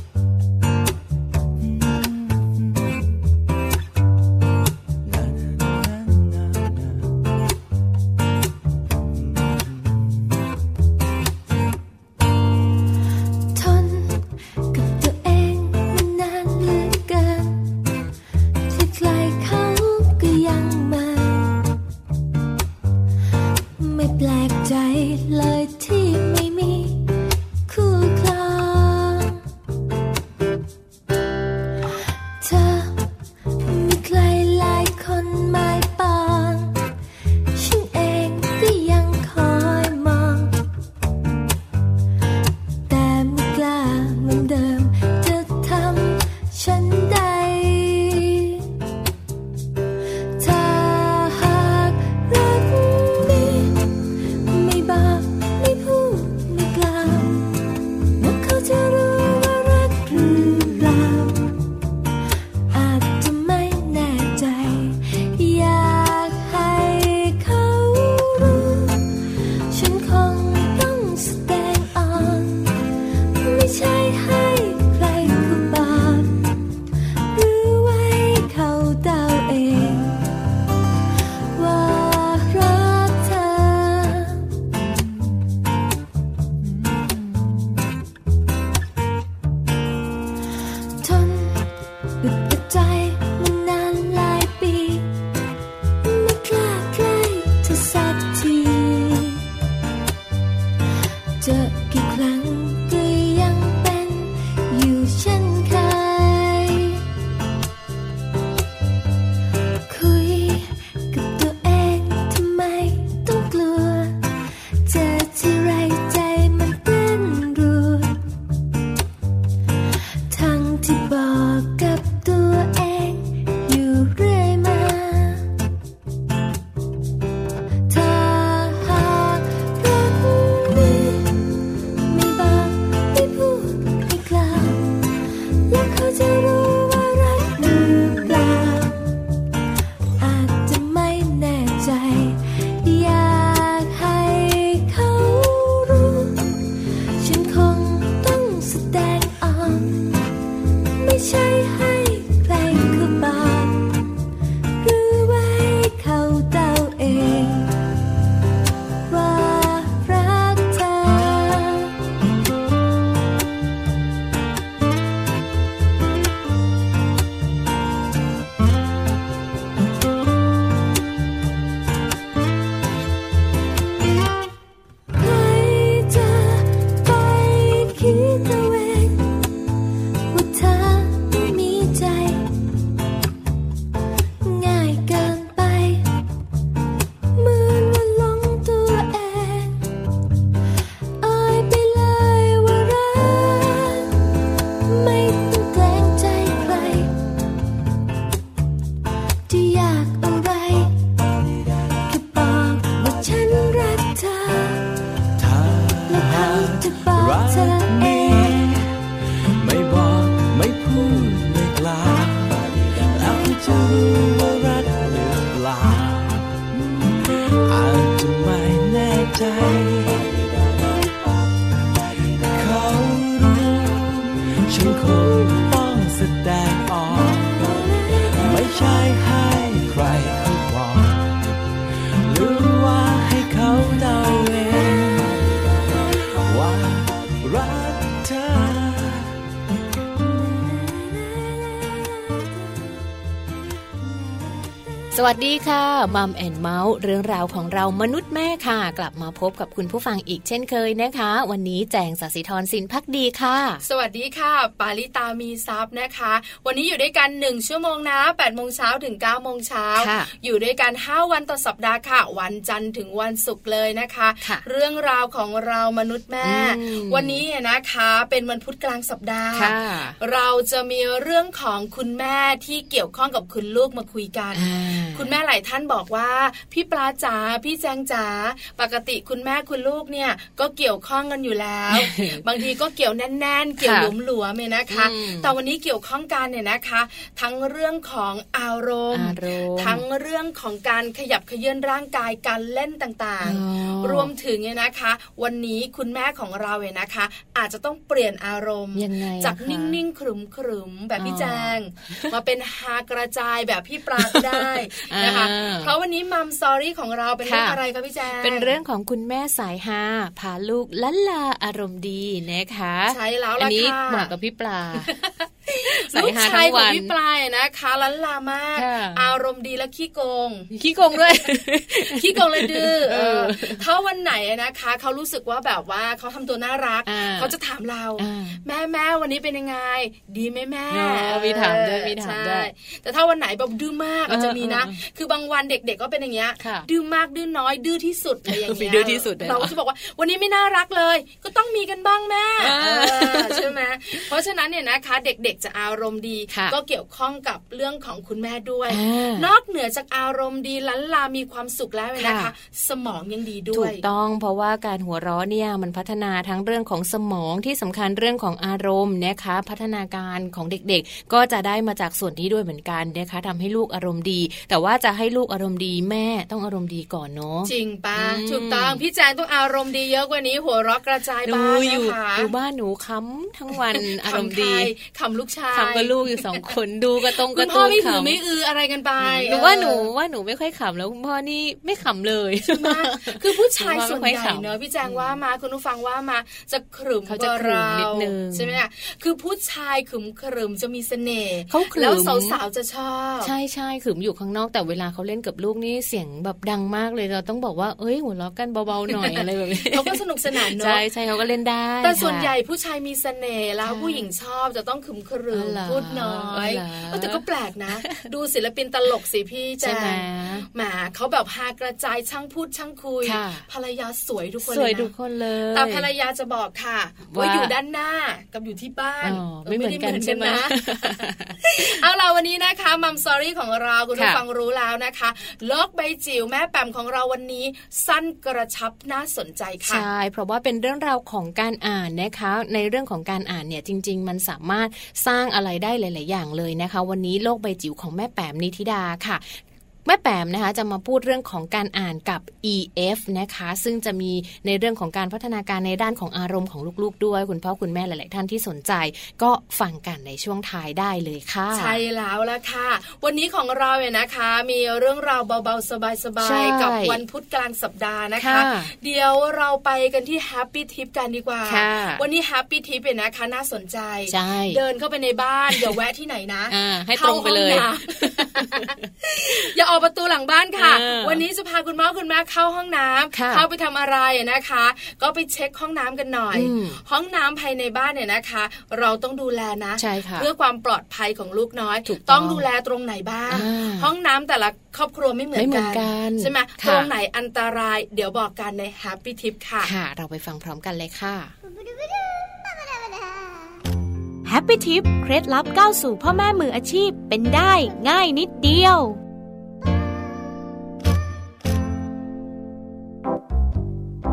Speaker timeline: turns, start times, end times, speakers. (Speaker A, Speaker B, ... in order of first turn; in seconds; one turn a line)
Speaker A: 5.0-7.0
Speaker B: 13.5-14.2
Speaker B: 14.7-17.6
Speaker B: 18.7-21.6
Speaker B: 23.8-27.0
Speaker B: 27.7-29.4
Speaker B: 32.4-33.0
Speaker B: 33.6-36.8
Speaker B: 37.5-40.5
Speaker B: 42.9-48.6
Speaker B: 50.4-53.8
Speaker B: 54.5-57.4
Speaker B: 58.2-61.4
Speaker B: 62.7-69.0
Speaker B: 69.7-72.6
Speaker B: 73.4-76.3
Speaker B: 77.3-80.2
Speaker B: 81.5-84.4
Speaker B: 91.0-91.6
Speaker B: 92.2-95.1
Speaker B: 96.0-99.4
Speaker B: 101.4-107.0
Speaker B: 109.9-114.1
Speaker B: 114.8-118.1
Speaker B: 120.3-125.4
Speaker B: 127.9-131.3
Speaker B: 132.1-134.9
Speaker B: 135.7-139.1
Speaker B: 140.2-146.4
Speaker B: 147.2-149.9
Speaker B: 151.0-153.7
Speaker B: 154.8-157.7
Speaker B: 159.1-161.9
Speaker B: 175.2-179.2
Speaker B: 180.3-182.4
Speaker B: 184.4-186.0
Speaker B: 187.3-189.7
Speaker B: 191.2-194.1
Speaker B: 194.9-197.1
Speaker B: 199.5-200.9
Speaker B: 202.1-204.8
Speaker A: 205.4-209.0
Speaker B: 206.1-208.5
Speaker A: 209.6-220.5
Speaker A: 222.5-231.5
Speaker B: 227.1-228.6
Speaker A: 232.2-235.4
Speaker A: 236.2-239.3
Speaker B: 240.2-242.4
Speaker C: 245.1-253.8
Speaker D: 253.8-308.8
Speaker C: 260.0-260.3
Speaker C: 266.4-267.4
Speaker C: 269.5-270.1
Speaker C: 274.5-275.3
Speaker C: 281.9-282.4
Speaker C: 283.8-284.1
Speaker C: 284.9-285.5
Speaker C: 289.1-290.0
Speaker C: 293.4-294.3
Speaker C: 298.9-300.0
Speaker C: 301.2-302.3
Speaker C: 304.2-305.9
Speaker C: 307.4-307.8
Speaker C: 308.4-315.1
Speaker D: 313.1-314.3
Speaker D: 315.7-320.7
Speaker C: 316.0-317.1
Speaker C: 318.8-319.3
Speaker C: 320.7-323.8
Speaker D: 322.1-354.0
Speaker C: 327.1-327.5
Speaker C: 328.2-328.6
Speaker C: 330.9-332.7
Speaker C: 334.3-334.9
Speaker C: 336.6-336.9
Speaker C: 338.5-339.7
Speaker C: 342.6-343.6
Speaker C: 346.5-346.8
Speaker C: 348.9-349.5
Speaker C: 352.2-352.5
Speaker C: 353.7-369.0
Speaker D: 367.7-372.5
Speaker C: 371.4-374.9
Speaker D: 373.7-376.8
Speaker C: 375.7-378.4
Speaker D: 377.3-380.1
Speaker C: 379.2-385.4
Speaker D: 382.7-393.5
Speaker C: 387.3-388.8
Speaker C: 391.7-392.6
Speaker C: 393.4-402.5
Speaker D: 399.1-401.0
Speaker D: 402.0-415.1
Speaker C: 403.8-404.3
Speaker C: 405.5-407.4
Speaker C: 409.8-410.6
Speaker C: 413.2-413.6
Speaker C: 414.6-416.1
Speaker D: 415.7-430.1
Speaker C: 417.3-417.7
Speaker C: 419.2-421.9
Speaker C: 424.1-424.4
Speaker C: 429.9-452.0
Speaker D: 451.7-489.9
Speaker C: 456.4-457.2
Speaker C: 458.4-458.9
Speaker C: 461.7-462.2
Speaker C: 464.3-464.8
Speaker C: 466.7-469.0
Speaker C: 470.8-471.4
Speaker C: 473.3-473.6
Speaker C: 476.5-477.0
Speaker C: 480.0-480.5
Speaker C: 482.1-482.6
Speaker C: 483.5-484.1
Speaker C: 485.5-487.1
Speaker C: 489.8-491.5
Speaker E: 494.4-499.2